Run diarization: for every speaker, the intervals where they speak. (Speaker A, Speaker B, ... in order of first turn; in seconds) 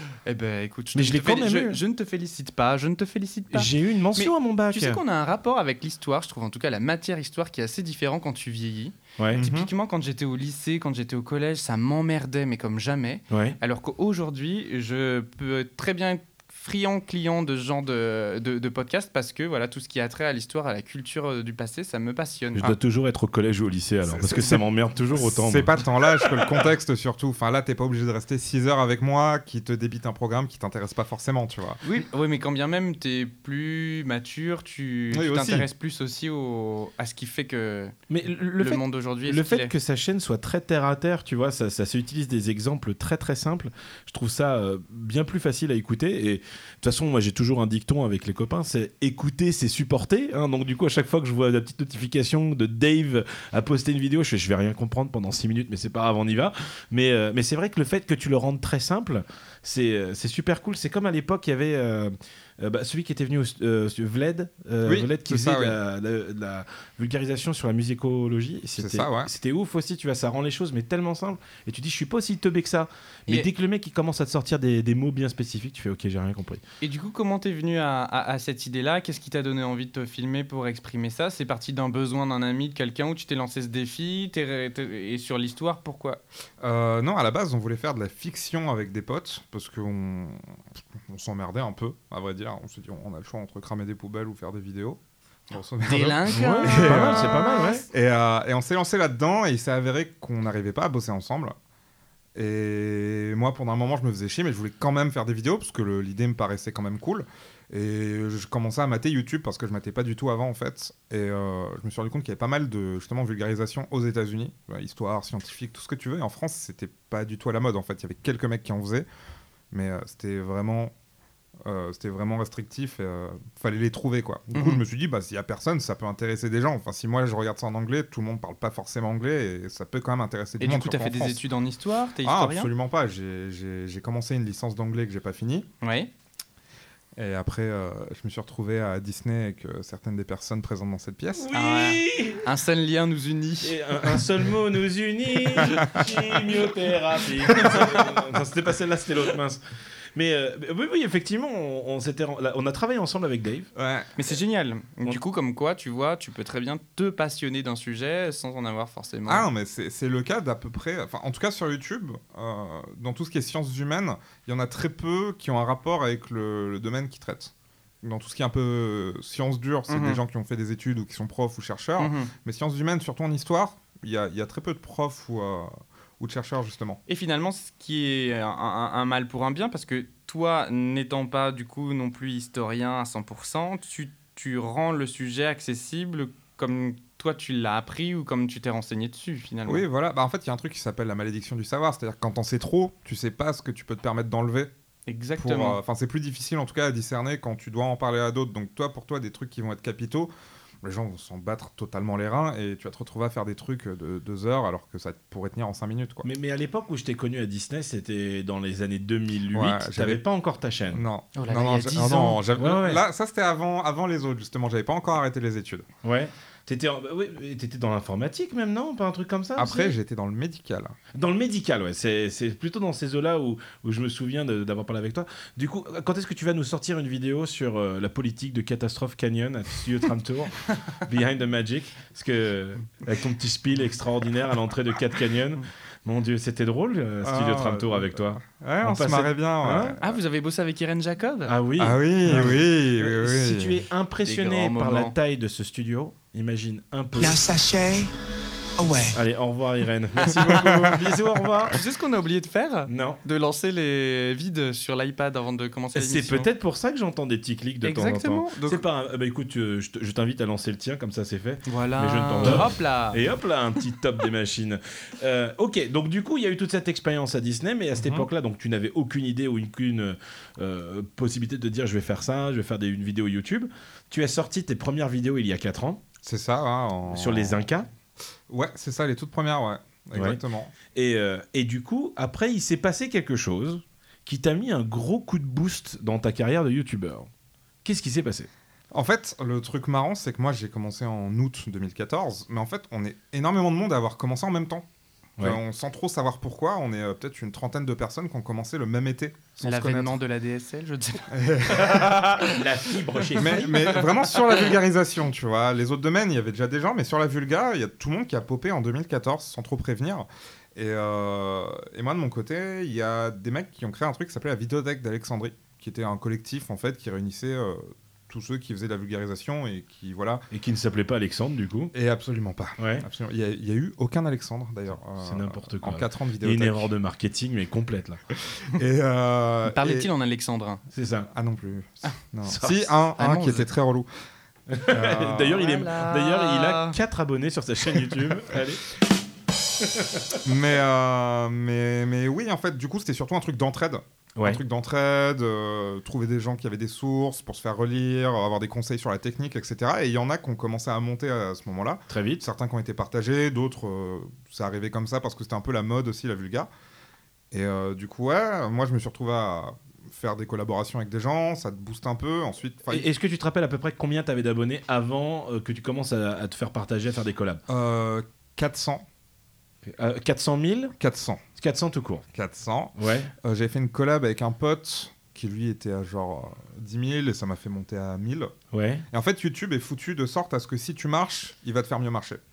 Speaker A: 0.2-22.7, 31.8-38.0, 38.6-39.7, 76.8-86.2, 95.8-97.8, 124.5-124.8, 130.6-132.7, 135.8-136.1, 141.5-144.2, 154.2-159.5, 169.9-170.2, 172.0-172.3, 177.1-189.8, 195.1-195.8, 211.3-212.4, 240.0-241.5, 244.2-245.1, 250.2-250.5, 251.7-256.5, 257.8-258.8, 261.6-263.2, 299.6-302.6, 303.2-304.7, 329.6-330.8, 333.2-333.7, 335.5-337.0
Speaker B: 0.9-1.8, 3.5-5.0, 13.3-13.6, 22.6-25.8, 38.1-76.6, 96.3-97.8, 141.4-142.4, 143.6-149.6, 150.1-153.7, 206.2-211.0, 212.6-213.0, 216.0-219.9, 221.1-239.9, 241.4-247.5, 249.1-251.8, 252.9-253.2, 255.9-276.0, 277.1-277.9, 280.1-280.4, 280.9-287.3, 287.8-288.5, 302.4-304.0, 320.5-321.9, 322.8-323.1, 325.2-328.2, 330.9-331.3, 332.4-332.9, 334.7-338.8, 339.8-340.4, 344.4-344.6, 352.1-352.4, 362.9-367.6, 369.9-370.9, 371.6-372.2, 373.0-373.3, 378.7-379.0
Speaker C: 9.3-9.7, 24.1-31.8, 35.1-35.7, 64.8-65.8, 68.8-69.3, 86.6-101.5, 102.3-119.1, 119.7-120.9, 121.6-131.4, 132.2-135.7, 137.2-141.5, 145.6-146.1, 147.5-147.8, 153.7-154.3, 159.2-177.0, 189.7-194.7, 195.4-200.3, 200.8-206.3, 209.5-210.2, 210.9-215.9, 219.6-220.9, 237.2-240.2, 241.8-243.8, 250.3-251.7, 268.0-268.3, 276.2-277.6, 278.5-280.7, 288.9-294.9, 295.4-300.2, 301.3-302.4, 303.4-320.4, 321.9-326.9, 328.5-330.1, 331.3-334.1, 334.9-335.6, 340.4-356.7, 357.5-363.1, 367.7-369.0, 371.0-371.4, 372.3-378.5, 379.1-382.4